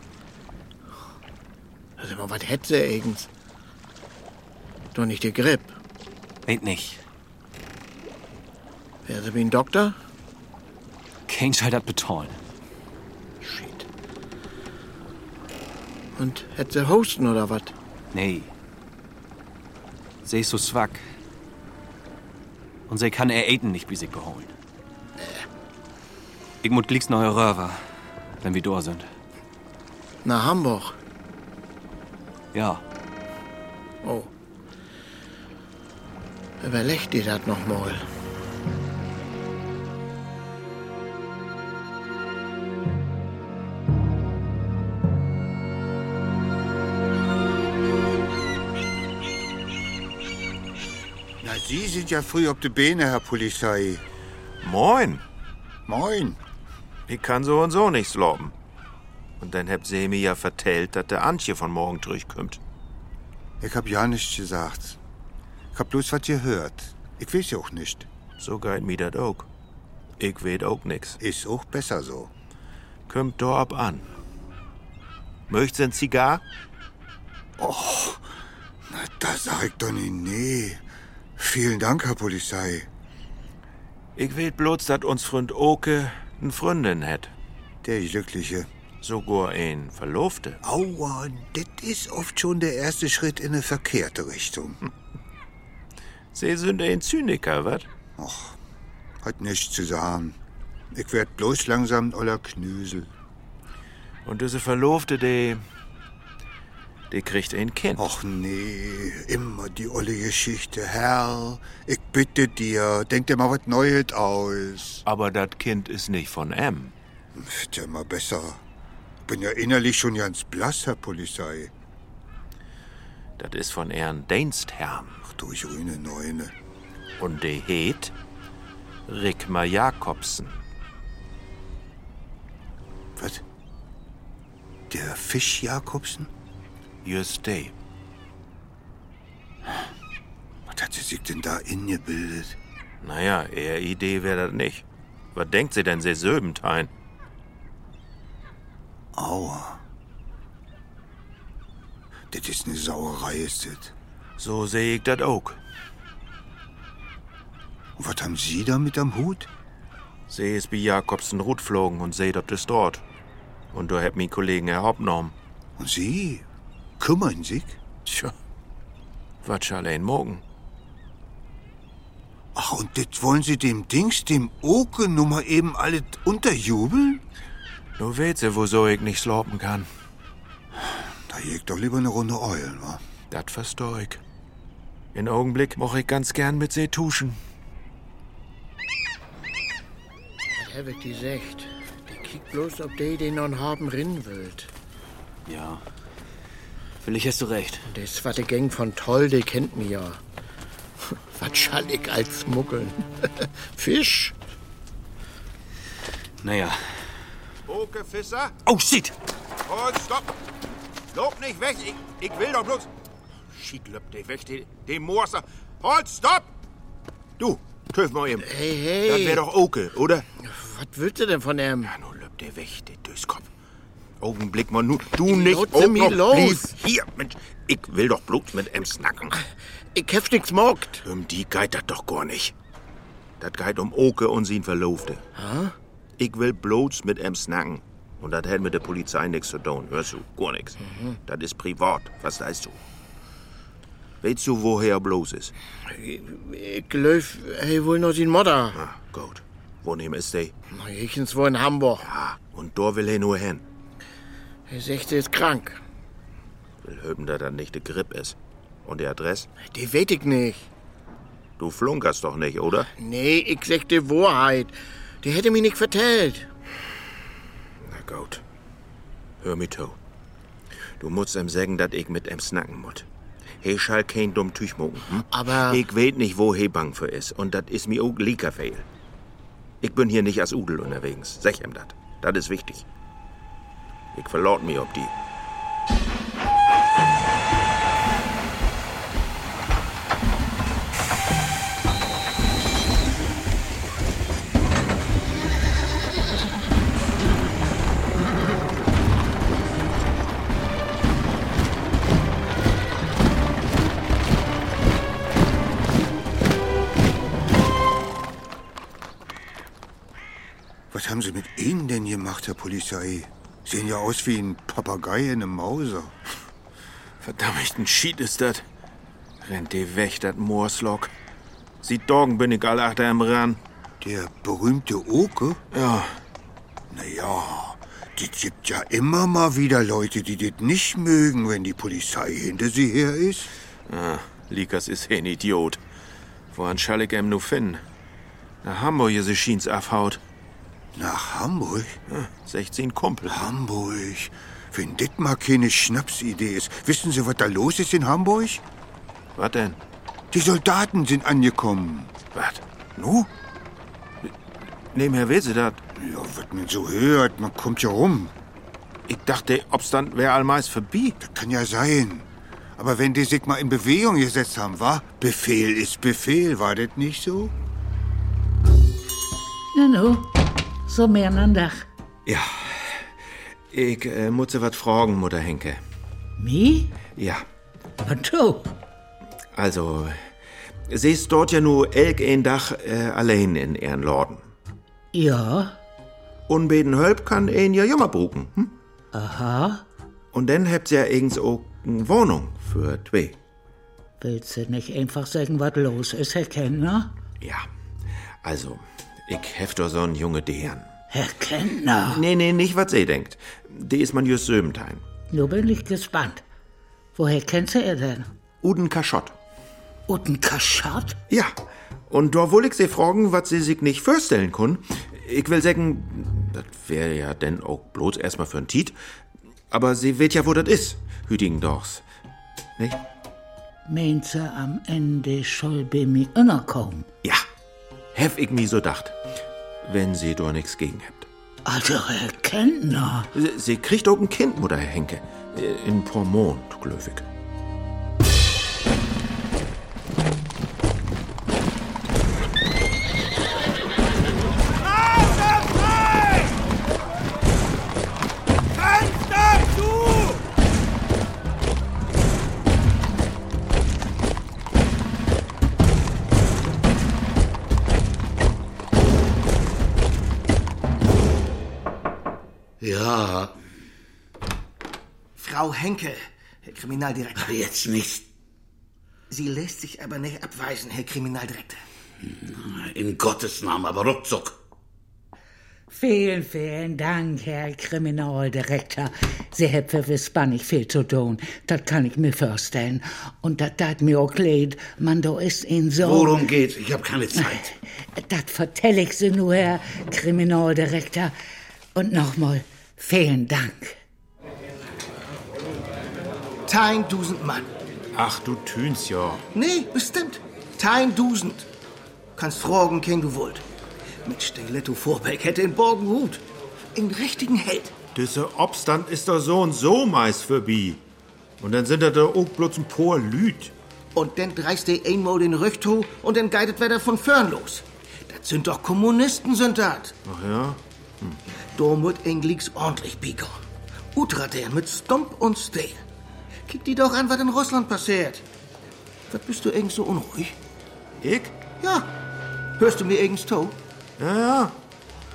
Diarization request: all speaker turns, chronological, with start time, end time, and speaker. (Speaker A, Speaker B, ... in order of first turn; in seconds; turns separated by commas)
Speaker A: 2.0-3.3, Speaker A: 4.9-5.7, Speaker B: 6.5-7.0, Speaker A: 9.1-9.9, Speaker B: 11.3-12.4, Speaker A: 16.1-17.7, Speaker B: 18.1-18.5, Speaker B: 20.2-21.0, Speaker B: 22.9-24.5, Speaker B: 26.6-27.8, Speaker B: 28.4-29.1, Speaker A: 30.2-30.9, Speaker B: 32.5-32.8, Speaker A: 34.0-34.3, Speaker A: 36.6-38.0, Speaker C: 51.4-54.0, Speaker D: 54.6-55.2, Speaker C: 55.9-56.4, Speaker D: 57.1-58.5, Speaker D: 59.4-62.6, Speaker C: 63.6-65.0, Speaker C: 65.7-68.1, Speaker D: 68.4-69.5, Speaker D: 70.2-71.2, Speaker C: 71.2-72.3, Speaker D: 73.1-74.1, Speaker D: 75.5-76.4, Speaker C: 77.6-78.2, Speaker C: 78.9-80.8, Speaker C: 81.4-82.9, Speaker D: 84.2-87.3, Speaker C: 87.8-88.7, Speaker D: 89.0-90.6, Speaker C: 90.6-94.8, Speaker D: 96.3-97.9, Speaker C: 98.2-98.6, Speaker C: 99.2-100.4, Speaker C: 100.9-103.1, Speaker D: 104.2-105.6, Speaker D: 107.1-108.0, Speaker C: 108.0-115.0, Speaker D: 115.0-116.9, Speaker C: 117.3-118.6, Speaker C: 119.2-121.7, Speaker D: 123.4-125.2, Speaker C: 125.2-126.5, Speaker D: 127.2-128.1, Speaker D: 129.1-130.6, Speaker C: 133.2-133.4, Speaker C: 134.9-136.3, Speaker D: 137.0-137.7, Speaker C: 140.7-142.6, Speaker D: 143.0-146.9, Speaker C: 149.1-149.8, Speaker C: 152.3-153.9, Speaker D: 154.4-155.6, Speaker C: 158.0-159.5, Speaker D: 160.3-163.0, Speaker D: 163.7-165.3, Speaker C: 165.8-166.4, Speaker C: 167.0-167.8, Speaker D: 168.1-168.3, Speaker D: 169.4-170.4, Speaker C: 172.5-177.2, Speaker D: 178.0-179.9, Speaker C: 180.8-183.0, Speaker D: 183.3-184.2, Speaker D: 185.1-187.4, Speaker A: 190.5-194.7, Speaker B: 195.5-195.8, Speaker B: 197.0-197.9, Speaker A: 197.9-200.2, Speaker A: 201.1-204.3, Speaker B: 206.4-206.8, Speaker D: 207.7-208.7, Speaker B: 208.7-209.1, Speaker D: 209.7-210.3, Speaker D: 211.1-212.9, Speaker D: 213.5-216.5, Speaker D: 217.4-218.5, Speaker A: 218.4-219.4, Speaker D: 219.0-220.2, Speaker A: 220.4-221.9, Speaker D: 221.8-223.5, Speaker D: 224.2-229.3, Speaker A: 225.3-226.7, Speaker A: 229.9-231.0, Speaker D: 231.0-232.5, Speaker D: 233.4-235.2, Speaker A: 235.3-235.7, Speaker D: 236.2-240.8, Speaker A: 240.9-241.2, Speaker D: 241.3-242.8, Speaker D: 244.2-245.5, Speaker A: 245.9-248.8, Speaker D: 248.7-250.5, Speaker A: 250.7-252.1, Speaker D: 252.0-253.6, Speaker A: 254.7-255.8, Speaker D: 256.8-259.5, Speaker A: 259.6-260.7, Speaker D: 261.6-262.9, Speaker A: 263.0-266.5, Speaker D: 267.8-268.4, Speaker D: 269.4-270.0, Speaker D: 271.0-273.1, Speaker D: 273.6-278.9, Speaker A: 275.3-275.8, Speaker D: 279.8-282.9, Speaker D: 284.1-285.1, Speaker C: 310.9-316.1, Speaker D: 317.2-318.6, Speaker D: 319.4-321.1, Speaker D: 321.8-323.6, Speaker C: 324.0-325.6, Speaker D: 325.7-326.2, Speaker C: 326.9-333.5, Speaker D: 333.9-335.8, Speaker D: 336.5-337.8, Speaker D: 338.6-340.2, Speaker C: 340.9-342.0, Speaker D: 342.1-343.4, Speaker C: 343.2-348.6, Speaker D: 349.4-349.8, Speaker C: 350.3-352.1, Speaker D: 352.3-352.6, Speaker C: 353.0-353.3, Speaker D: 354.9-355.8, Speaker C: 355.9-358.3, Speaker D: 359.1-361.1, Speaker C: 361.2-367.5, Speaker E: 369.7-370.3, Speaker E: 370.9-371.9, Speaker D: 372.2-373.1, Speaker D: 373.7-375.8, Speaker E: 376.4-376.9, Speaker D: 377.1-377.4, Speaker E: 378.0-378.7, Speaker D: 379.5-380.3, Speaker D: 380.9-384.5, Speaker E: 385.1-385.8, Speaker D: 386.5-388.7, Speaker E: 389.1-389.8, Speaker D: 390.3-393.4, Speaker E: 394.2-397.1, Speaker D: 397.4-397.6, Speaker D: 398.4-400.9, Speaker E: 401.1-402.2, Speaker D: 402.1-405.0, Speaker E: 405.3-406.4, Speaker E: 407.1-408.3, Speaker D: 408.6-409.4, Speaker E: 410.1-411.2, Speaker D: 412.1-418.9, Speaker D: 419.7-422.0, Speaker E: 423.9-427.1, Speaker D: 428.1-429.2, Speaker D: 429.8-431.3, Speaker E: 431.6-433.3, Speaker D: 433.3-437.3, Speaker F: 462.8-463.5, Speaker G: 465.4-467.6, Speaker F: 467.4-468.2, Speaker G: 469.3-471.8, Speaker F: 472.2-474.6, Speaker E: 475.9-486.4, Speaker F: 486.0-487.7, Speaker E: 487.3-491.3, Speaker E: 491.9-494.0, Speaker G: 496.6-497.7, Speaker D: 498.1-499.4, Speaker G: 499.5-501.7, Speaker G: 502.4-503.6, Speaker G: 504.2-506.4, Speaker G: 506.9-507.9, Speaker D: 508.1-511.0, Speaker D: 511.6-513.7, Speaker G: 514.1-520.1, Speaker D: 520.2-521.4, Speaker G: 521.7-523.5, Speaker G: 524.1-526.0, Speaker G: 526.7-528.4, Speaker G: 529.3-530.5, Speaker D: 531.2-531.5, Speaker G: 531.8-532.1, Speaker G: 532.8-533.8, Speaker D: 534.2-534.8